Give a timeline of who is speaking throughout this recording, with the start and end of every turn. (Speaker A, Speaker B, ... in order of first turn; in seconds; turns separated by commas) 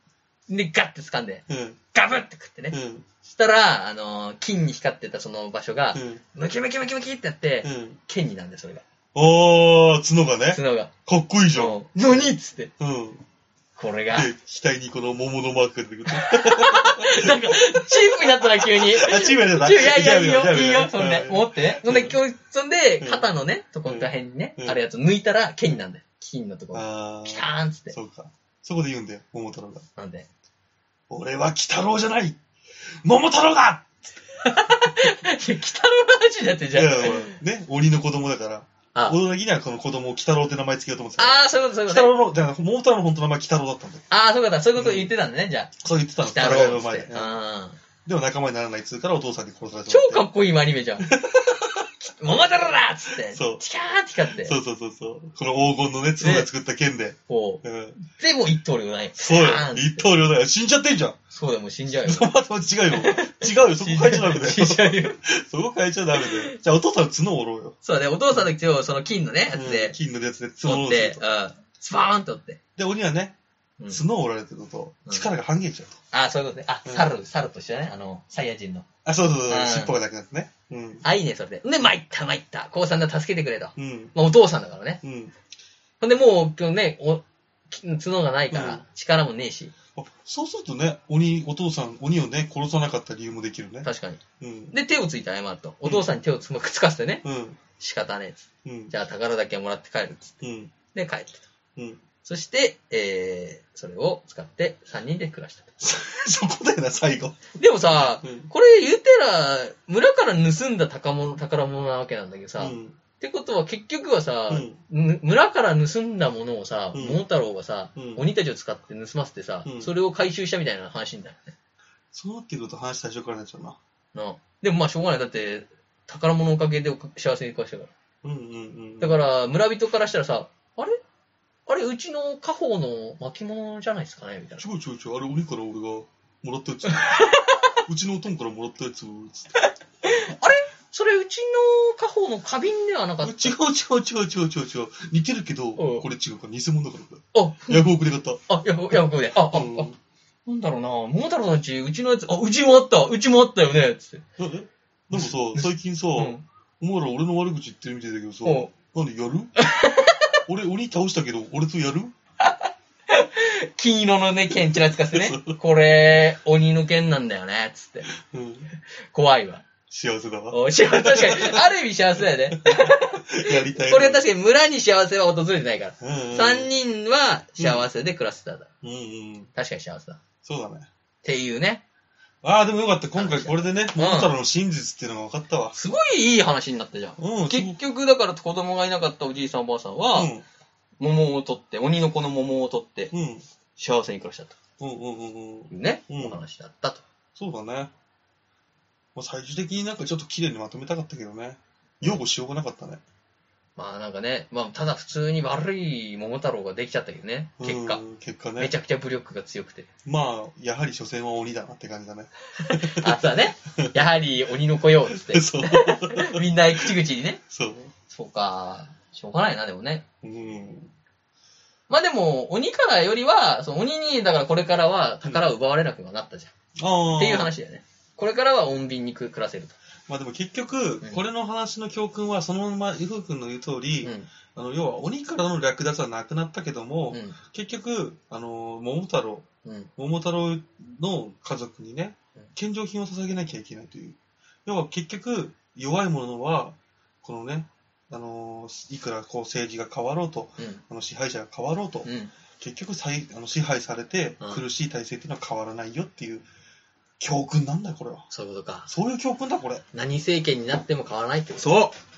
Speaker A: 0.5-8.8, Speaker B: 1.5-1.8, Speaker B: 2.7-3.1, Speaker B: 6.0-6.2, Speaker B: 7.6-8.0, Speaker B: 9.1-13.2, Speaker A: 10.5-10.9, Speaker A: 11.5-12.7, Speaker A: 13.8-14.3, Speaker B: 14.1-22.2, Speaker A: 16.1-27.9, Speaker B: 23.0-23.3, Speaker B: 23.9-24.8, Speaker B: 26.7-29.9, Speaker A: 30.0-30.3, Speaker B: 31.1-32.4, Speaker B: 33.0-34.0, Speaker A: 34.4-37.4, Speaker B: 36.7-44.1, Speaker A: 41.2-42.1, Speaker A: 44.1-45.7, Speaker B: 44.8-45.1, Speaker B: 45.8-47.3, Speaker A: 46.2-47.8, Speaker B: 48.0-50.2, Speaker A: 49.9-51.1, Speaker B: 51.0-51.9, Speaker A: 52.0-54.5, Speaker B: 53.2-53.6, Speaker B: 54.3-58.0, Speaker A: 56.2-56.5, Speaker A: 57.3-60.1, Speaker B: 59.2-61.2, Speaker A: 61.3-62.3, Speaker B: 61.9-67.8, Speaker A: 62.9-65.2, Speaker A: 66.1-66.6, Speaker A: 67.8-70.0, Speaker B: 69.5-71.2, Speaker A: 70.6-72.6, Speaker B: 72.8-73.4, Speaker B: 73.9-76.0, Speaker A: 76.1-78.9, Speaker B: 79.0-81.0, Speaker A: 79.5-80.0, Speaker A: 81.0-85.0, Speaker B: 83.8-84.2, Speaker B: 85.0-85.3, Speaker A: 86.0-89.7, Speaker B: 88.5-88.8, Speaker B: 90.0-93.9, Speaker A: 93.8-94.2, Speaker B: 94.4-94.8, Speaker A: 94.7-97.2, Speaker B: 95.8-96.1, Speaker B: 97.2-97.6, Speaker A: 97.8-100.4, Speaker B: 98.6-98.9, Speaker B: 100.4-100.7, Speaker A: 100.9-101.5, Speaker A: 102.2-105.8, Speaker B: 105.8-107.5, Speaker A: 107.6-121.5, Speaker B: 108.2-108.5, Speaker B: 112.6-113.0, Speaker B: 114.5-114.8, Speaker B: 116.9-117.2, Speaker B: 118.0-118.2, Speaker B: 119.7-119.9, Speaker B: 122.1-123.8, Speaker A: 124.1-127.9, Speaker B: 128.2-129.2, Speaker A: 129.0-131.0, Speaker A: 131.7-134.7, Speaker B: 134.6-139.5, Speaker A: 136.9-137.8, Speaker A: 139.6-143.6, Speaker B: 143.2-148.4, Speaker A: 145.8-146.1, Speaker A: 147.3-147.9, Speaker A: 148.5-149.9, Speaker B: 149.5-150.0, Speaker A: 150.5-154.2, Speaker B: 154.4-159.5, Speaker A: 155.1-156.4, Speaker A: 158.4-158.7, Speaker A: 159.6-160.4, Speaker B: 160.5-162.1, Speaker A: 162.4-168.1, Speaker B: 164.7-165.6, Speaker B: 168.1-168.7, Speaker A: 169.1-169.7, Speaker B: 169.9-171.7, Speaker A: 170.5-178.7, Speaker B: 172.5-174.2, Speaker B: 176.0-176.7, Speaker B: 177.6-177.9, Speaker B: 178.8-179.5, Speaker A: 179.6-180.2, Speaker B: 180.4-180.9, Speaker A: 181.2-181.8, Speaker B: 182.4-185.8, Speaker A: 183.2-184.3, Speaker A: 185.8-190.3, Speaker B: 187.2-187.8, Speaker B: 190.1-190.4, Speaker A: 191.0-193.1, Speaker B: 193.1-193.4, Speaker A: 193.8-194.6, Speaker B: 194.8-196.4, Speaker A: 195.7-197.0, Speaker B: 197.4-197.9, Speaker B: 199.2-203.0, Speaker A: 203.8-208.0, Speaker B: 207.6-208.7, Speaker A: 208.6-209.9, Speaker B: 210.1-214.1, Speaker A: 212.6-217.4, Speaker B: 215.1-217.0, Speaker B: 217.5-217.9, Speaker A: 218.1-220.0, Speaker B: 220.2-220.9, Speaker A: 221.9-226.5, Speaker B: 225.2-225.5, Speaker B: 226.8-227.5, Speaker A: 227.2-229.8, Speaker B: 230.1-256.5, Speaker A: 234.0-234.3, Speaker A: 237.1-237.4, Speaker A: 252.1-252.3, Speaker B: 257.2-258.3, Speaker A: 258.3-258.9, Speaker B: 258.9-259.8, Speaker A: 259.9-261.7, Speaker B: 261.6-261.9